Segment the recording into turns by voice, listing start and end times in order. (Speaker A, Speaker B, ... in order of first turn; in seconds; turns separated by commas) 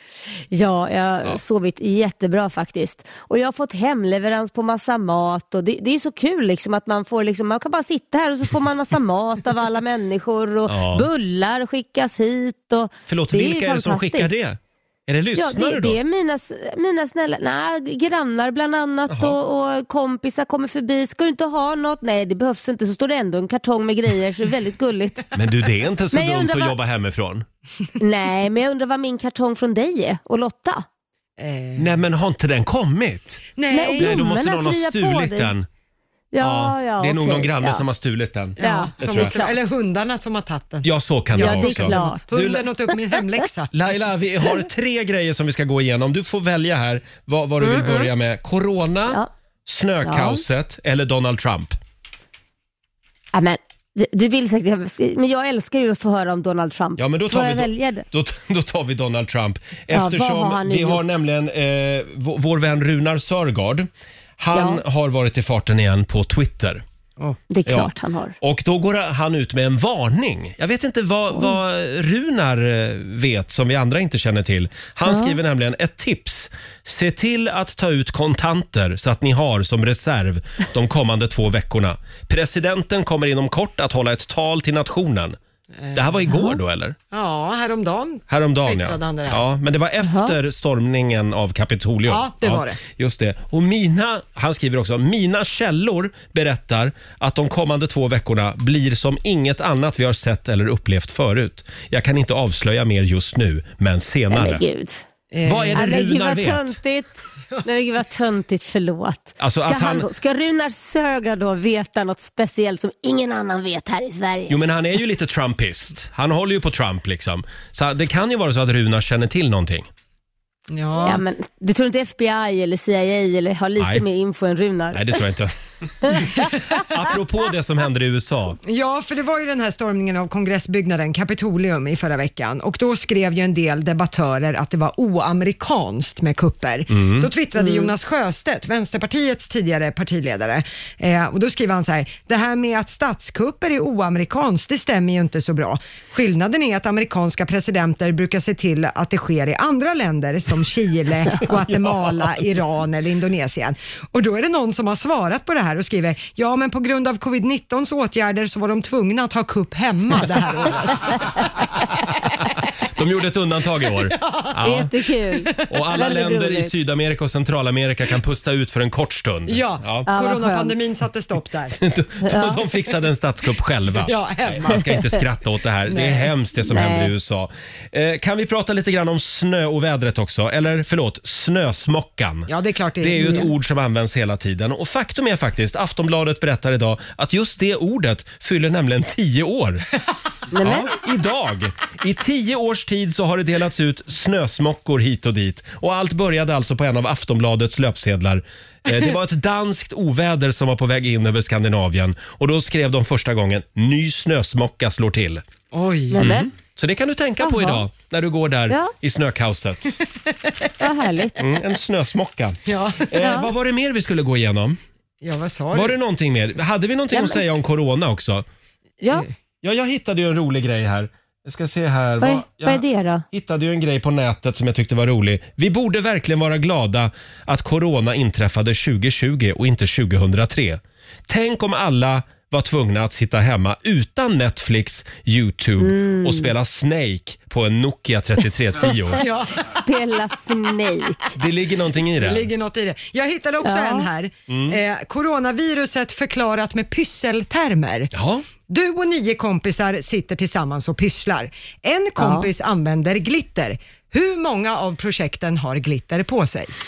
Speaker A: 0.5-14.3, Speaker B: 10.7-11.1, Speaker B: 13.1-15.9, Speaker A: 15.3-25.3, Speaker B: 19.1-19.4, Speaker B: 25.3-27.4, Speaker A: 26.1-26.7, Speaker A: 28.0-30.8, Speaker C: 31.4-31.9, Speaker B: 31.8-35.6, Speaker C: 33.5-34.2, Speaker A: 33.7-35.5, Speaker A: 36.3-37.8, Speaker B: 36.4-39.3, Speaker C: 38.6-43.7, Speaker A: 38.6-39.5, Speaker B: 40.8-42.7, Speaker A: 41.4-42.2, Speaker B: 43.7-51.8, Speaker A: 47.6-48.1, Speaker A: 50.0-50.4, Speaker A: 53.3-58.0, Speaker B: 57.0-63.9, Speaker A: 59.9-61.0, Speaker B: 64.4-66.8, Speaker A: 64.5-64.8, Speaker A: 67.5-68.3, Speaker B: 67.7-85.4, Speaker A: 75.1-75.3, Speaker C: 85.8-86.2, Speaker B: 85.9-87.0, Speaker A: 86.3-86.5, Speaker C: 87.1-89.4, Speaker B: 88.3-104.6, Speaker A: 90.0-90.3, Speaker C: 92.1-92.8, Speaker A: 104.3-105.0, Speaker C: 105.3-106.0, Speaker B: 105.4-106.8, Speaker A: 105.7-114.6, Speaker B: 109.4-110.0, Speaker B: 114.5-119.9, Speaker C: 120.7-121.2, Speaker A: 121.0-125.2, Speaker B: 123.8-124.0, Speaker B: 124.9-128.6, Speaker C: 128.6-161.7, Speaker B: 136.9-137.3, Speaker A: 137.6-137.9, Speaker B: 162.8-164.9, Speaker C: 164.1-164.6, Speaker A: 164.6-166.7, Speaker C: 165.4-165.6, Speaker B: 165.7-170.1, Speaker C: 169.5-171.8, Speaker A: 170.1-170.7, Speaker B: 171.8-189.8, Speaker A: 172.2-172.6, Speaker C: 174.0-174.9, Speaker C: 175.9-176.3, Speaker A: 176.7-177.1, Speaker C: 182.5-183.5, Speaker A: 190.5-190.9, Speaker B: 190.6-205.4, Speaker C: 205.7-206.2, Speaker A: 206.1-206.5, Speaker B: 206.2-209.9, Speaker A: 207.4-207.8, Speaker A: 210.8-211.4, Speaker B: 211.4-214.8, Speaker C: 212.7-213.1, Speaker A: 213.2-213.5, Speaker C: 215.2-216.0, Speaker B: 215.7-218.4, Speaker A: 217.1-217.4, Speaker A: 219.0-219.3, Speaker B: 219.6-239.2, Speaker A: 222.2-223.2, Speaker A: 235.8-236.5, Speaker C: 239.2-239.8, Speaker A: 239.6-241.2, Speaker B: 241.3-242.5, Speaker C: 242.2-248.1, Speaker A: 243.6-244.1, Speaker B: 244.5-244.8, Speaker B: 248.1-248.4, Speaker C: 248.7-256.7, Speaker A: 252.2-252.5